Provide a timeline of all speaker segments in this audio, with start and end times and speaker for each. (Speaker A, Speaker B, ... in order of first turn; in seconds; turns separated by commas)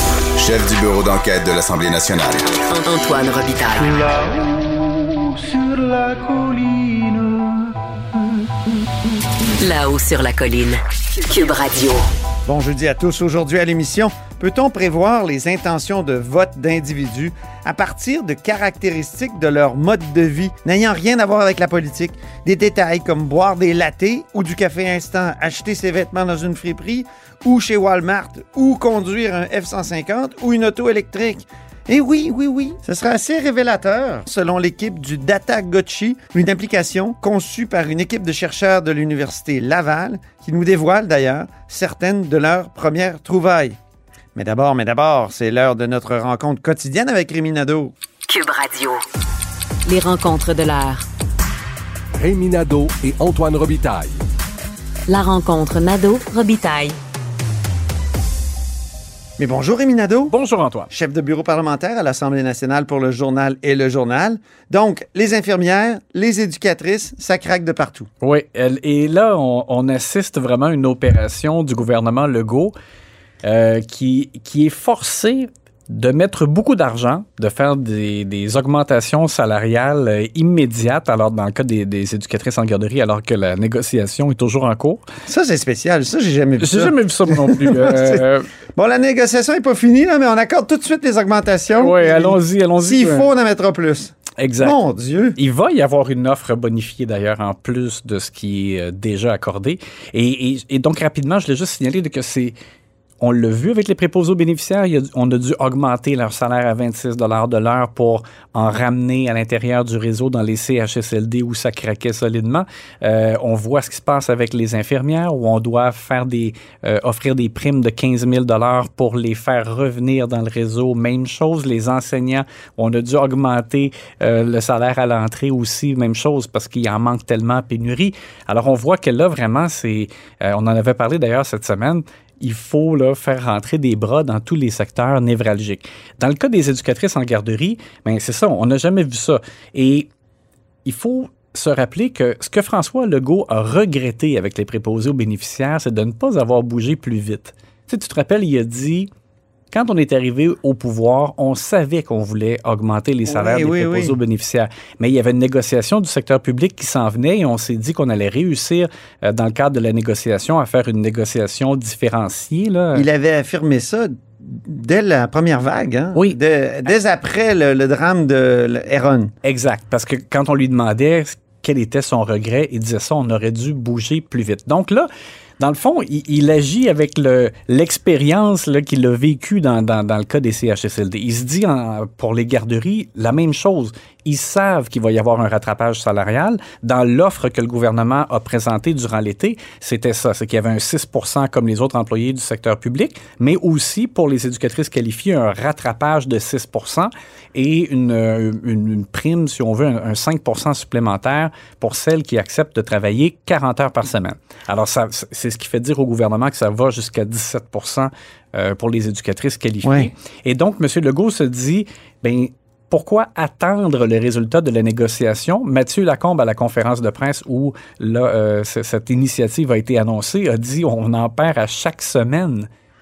Speaker A: 0.4-2.4, Speaker B: 0.4-0.8, Speaker B: 1.7-2.4, Speaker C: 2.7-4.4, Speaker B: 5.6-7.1, Speaker C: 9.6-12.1, Speaker D: 12.4-43.8, Speaker D: 44.3-47.9, Speaker C: 48.2-49.0, Speaker C: 49.9-51.0, Speaker E: 52.1-54.2, Speaker C: 55.1-57.0, Speaker D: 59.4-60.3, Speaker F: 60.3-60.9, Speaker D: 60.9-68.1, Speaker F: 68.2-72.7, Speaker F: 73.4-85.0, Speaker D: 85.3-95.4, Speaker F: 86.6-88.5, Speaker F: 91.7-93.3, Speaker F: 94.4-94.8, Speaker F: 95.3-102.5, Speaker F: 103.2-140.1, Speaker F: 140.8-149.1, Speaker F: 149.7-163.1, Speaker D: 153.3-154.2, Speaker D: 162.9-169.3, Speaker F: 169.4-222.7, Speaker D: 209.8-210.1